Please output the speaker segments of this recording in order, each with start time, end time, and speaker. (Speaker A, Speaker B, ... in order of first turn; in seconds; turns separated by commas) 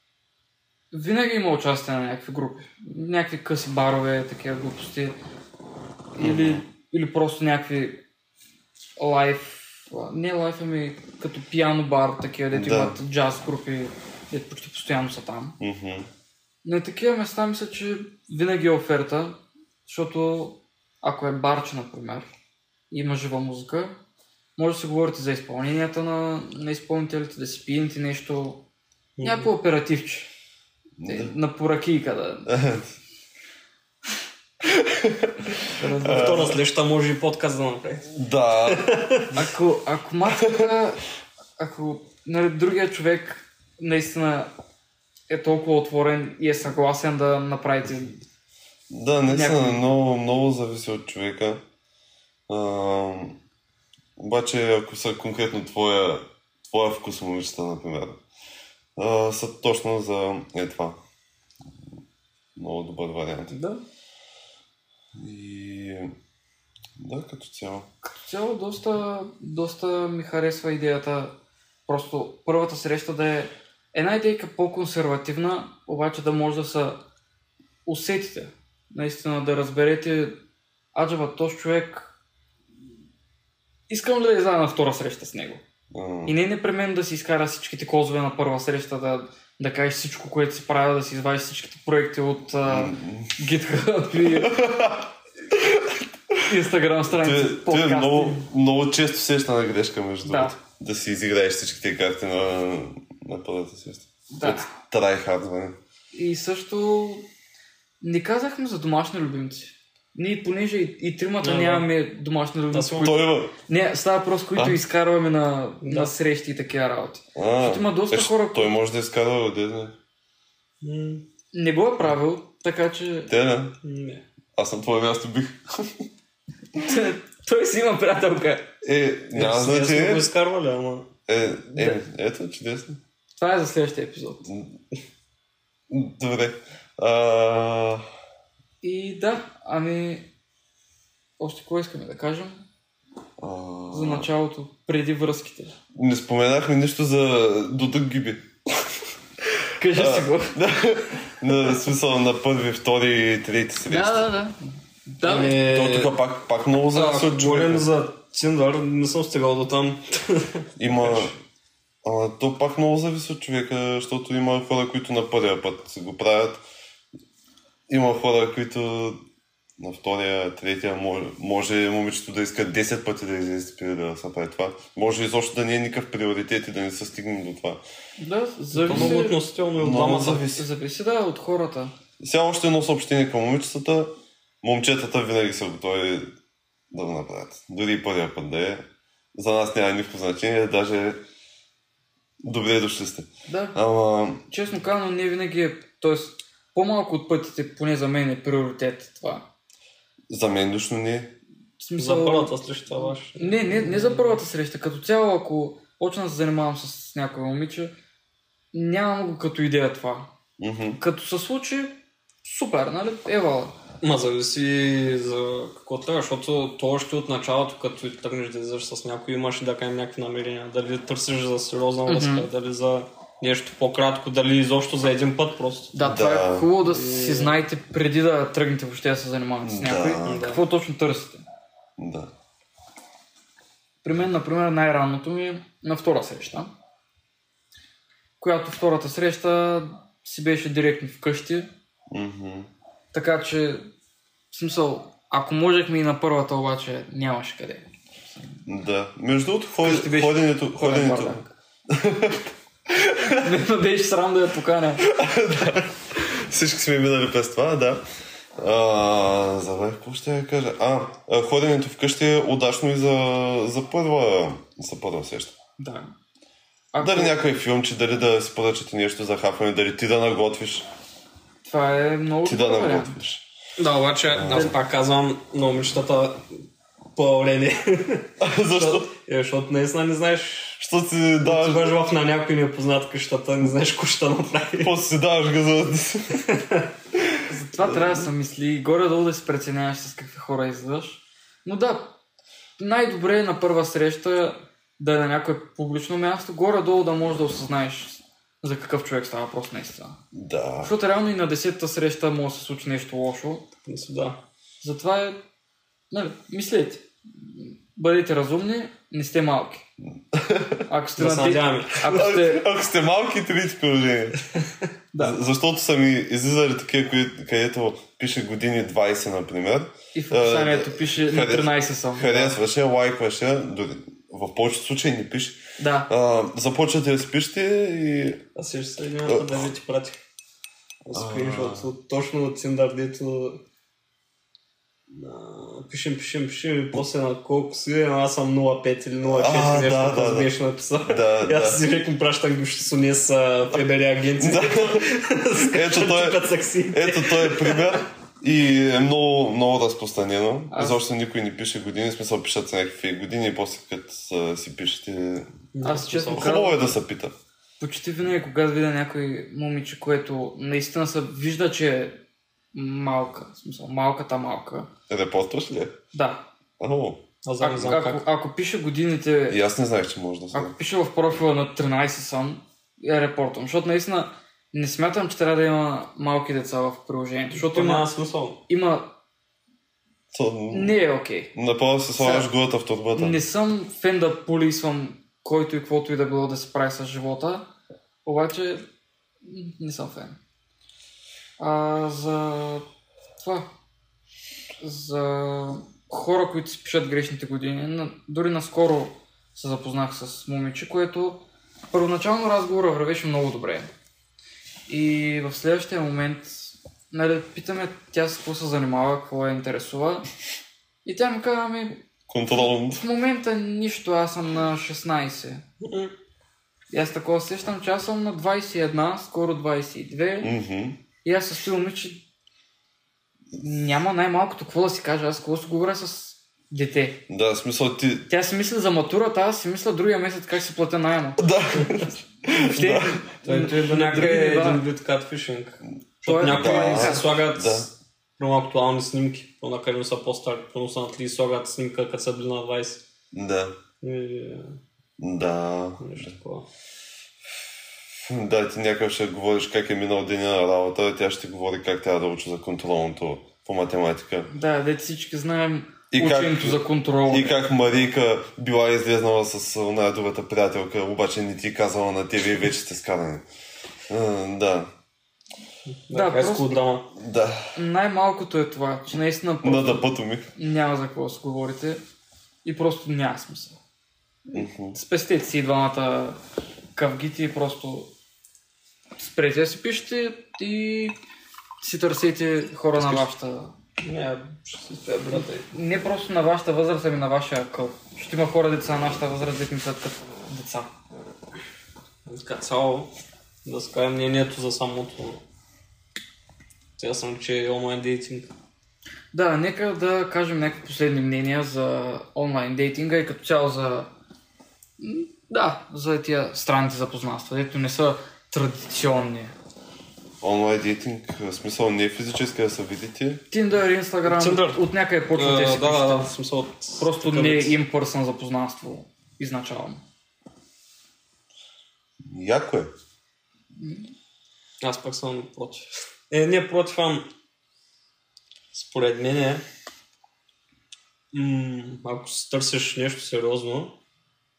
Speaker A: 0.9-5.2, Speaker A: 6.1-8.0, Speaker B: 6.2-6.6, Speaker A: 9.0-15.6, Speaker B: 12.5-13.0, Speaker B: 15.6-16.1, Speaker A: 16.6-22.3, Speaker A: 22.9-23.9, Speaker A: 24.6-28.6, Speaker C: 29.2-29.5, Speaker A: 29.2-30.3, Speaker B: 31.0-31.3, Speaker A: 31.0-32.5, Speaker B: 32.5-32.9, Speaker B: 34.6-36.6, Speaker A: 35.8-36.6, Speaker C: 36.0-39.3, Speaker B: 38.1-38.9, Speaker A: 39.3-41.0, Speaker B: 40.4-40.7, Speaker A: 41.6-44.5, Speaker A: 45.3-48.2, Speaker B: 48.9-51.6, Speaker A: 49.3-49.8, Speaker B: 52.5-53.4, Speaker B: 54.2-58.2, Speaker B: 59.0-61.0, Speaker B: 62.6-63.5, Speaker A: 63.5-63.8, Speaker B: 65.1-66.1, Speaker B: 67.0-67.9, Speaker A: 68.2-71.3, Speaker A: 71.9-77.0, Speaker A: 77.8-80.4, Speaker A: 80.9-82.1, Speaker A: 83.9-85.6, Speaker B: 85.9-86.3, Speaker A: 86.2-94.6, Speaker B: 92.7-93.5, Speaker B: 94.2-96.4, Speaker A: 96.4-98.5, Speaker B: 97.1-105.8, Speaker A: 100.2-100.6, Speaker A: 104.3-104.7, Speaker A: 106.1-107.2, Speaker A: 108.0-118.7, Speaker C: 111.4-111.9, Speaker C: 112.7-113.1, Speaker B: 113.0-113.5, Speaker C: 115.8-116.1, Speaker B: 117.3-120.0, Speaker C: 120.8-121.2, Speaker A: 121.5-123.3, Speaker B: 123.3-123.8, Speaker C: 123.8-124.2, Speaker B: 124.5-126.0, Speaker A: 126.7-128.7, Speaker B: 128.8-130.3, Speaker C: 129.3-131.1, Speaker B: 131.3-133.0, Speaker A: 131.8-132.1, Speaker A: 133.4-134.5, Speaker B: 134.5-134.8, Speaker B: 135.9-138.1, Speaker A: 138.8-140.3, Speaker A: 141.4-142.6, Speaker B: 143.4-144.3, Speaker A: 143.9-145.7, Speaker B: 145.9-149.0, Speaker A: 149.8-150.6, Speaker B: 149.9-154.3, Speaker A: 153.9-155.6, Speaker C: 155.2-156.1, Speaker B: 155.4-157.9, Speaker C: 156.9-161.3, Speaker B: 160.8-161.3, Speaker B: 162.0-166.6, Speaker B: 167.9-169.2, Speaker B: 169.8-177.8, Speaker A: 178.2-179.4, Speaker C: 178.8-180.4, Speaker B: 178.9-179.2, Speaker B: 179.8-180.7, Speaker A: 180.5-181.9, Speaker B: 182.2-184.1, Speaker B: 184.6-186.3, Speaker B: 186.9-191.2, Speaker B: 192.4-194.4, Speaker A: 193.5-193.8, Speaker A: 194.5-199.4, Speaker B: 200.3-201.3, Speaker A: 201.8-207.9, Speaker C: 202.0-204.4, Speaker A: 208.7-210.3, Speaker B: 210.6-211.0, Speaker A: 211.0-213.8, Speaker C: 214.0-225.9, Speaker A: 222.1-222.5, Speaker A: 225.9-231.4, Speaker B: 226.0-226.7, Speaker C: 226.8-227.5, Speaker B: 229.6-230.5, Speaker C: 230.2-230.6, Speaker B: 232.0-232.3, Speaker A: 234.0-236.7, Speaker A: 238.4-241.7, Speaker B: 242.1-242.7, Speaker A: 243.1-243.9, Speaker A: 244.5-248.6, Speaker B: 248.7-253.5, Speaker A: 249.8-251.5, Speaker A: 253.3-255.1, Speaker B: 255.0-258.0, Speaker B: 258.6-265.5, Speaker A: 265.8-266.1, Speaker A: 266.9-267.4, Speaker B: 267.0-270.9, Speaker A: 271.6-273.2, Speaker B: 272.4-273.4, Speaker C: 273.8-276.5, Speaker B: 274.3-274.8, Speaker C: 277.1-280.8, Speaker B: 278.4-279.1, Speaker B: 280.8-281.9, Speaker C: 281.4-285.0, Speaker B: 284.8-286.5, Speaker C: 286.5-286.9, Speaker A: 287.5-292.1, Speaker B: 287.8-288.2, Speaker A: 292.8-300.2, Speaker B: 300.3-300.9, Speaker A: 300.8-303.6, Speaker C: 303.9-304.4, Speaker A: 304.8-305.4, Speaker A: 306.1-309.9, Speaker B: 310.3-310.8, Speaker A: 310.9-312.6, Speaker C: 311.2-312.1, Speaker B: 312.1-314.4, Speaker A: 315.1-315.4, Speaker B: 315.2-328.5, Speaker A: 320.1-322.6, Speaker A: 325.8-326.1, Speaker C: 328.6-330.2, Speaker B: 329.2-329.7, Speaker C: 331.1-333.6, Speaker B: 331.1-331.9, Speaker C: 335.1-348.0, Speaker B: 339.2-340.5, Speaker B: 341.1-341.8, Speaker B: 344.4-345.1, Speaker B: 345.6-355.5, Speaker A: 350.7-351.0, Speaker C: 355.7-356.6, Speaker A: 355.8-357.0, Speaker B: 356.3-357.3, Speaker A: 357.8-362.2, Speaker A: 362.7-364.9, Speaker B: 365.1-366.0, Speaker A: 366.1-366.5, Speaker B: 366.8-367.2, Speaker C: 367.4-368.2, Speaker A: 367.6-369.6, Speaker B: 369.5-370.7, Speaker A: 370.5-378.1, Speaker C: 377.5-378.6, Speaker A: 378.7-379.1, Speaker B: 380.3-381.0, Speaker A: 380.7-381.5, Speaker B: 381.5-383.4, Speaker A: 382.2-382.5, Speaker A: 383.1-387.7, Speaker A: 388.2-388.8, Speaker A: 389.4-390.4, Speaker A: 391.6-392.8, Speaker A: 393.4-393.7, Speaker A: 394.8-403.9, Speaker A: 404.9-410.2, Speaker A: 411.0-412.0, Speaker B: 412.3-413.0, Speaker A: 412.6-415.6, Speaker C: 415.8-416.1, Speaker A: 416.9-420.5, Speaker B: 420.4-421.0, Speaker A: 421.2-422.2, Speaker A: 423.5-427.2, Speaker B: 427.3-428.3, Speaker A: 428.3-431.5, Speaker B: 431.4-433.3, Speaker A: 432.4-434.8, Speaker C: 433.4-443.0, Speaker A: 436.2-437.3, Speaker B: 436.5-437.9, Speaker B: 443.3-443.8, Speaker C: 444.0-444.8, Speaker B: 445.2-446.4, Speaker C: 446.0-446.7, Speaker B: 448.2-454.5, Speaker A: 454.5-457.7, Speaker B: 456.1-463.4, Speaker B: 464.1-464.9, Speaker C: 465.9-467.1, Speaker A: 466.1-466.8, Speaker B: 467.1-467.7, Speaker A: 467.7-472.0, Speaker B: 469.6-470.5, Speaker A: 472.6-473.8, Speaker A: 474.4-476.4, Speaker B: 474.5-475.0, Speaker A: 476.9-478.1, Speaker A: 479.2-481.1, Speaker A: 481.8-483.7, Speaker C: 483.0-483.2, Speaker C: 484.0-485.7, Speaker A: 485.3-490.9, Speaker C: 492.3-493.1, Speaker C: 493.6-495.4, Speaker C: 497.0-498.5, Speaker A: 499.3-504.1, Speaker A: 505.0-509.5, Speaker B: 510.4-513.4, Speaker A: 513.5-516.3, Speaker C: 514.2-514.8, Speaker C: 515.3-517.8, Speaker A: 517.0-520.0, Speaker B: 522.2-522.9, Speaker A: 523.8-524.1, Speaker C: 524.8-527.3, Speaker C: 528.7-529.6, Speaker C: 531.3-533.9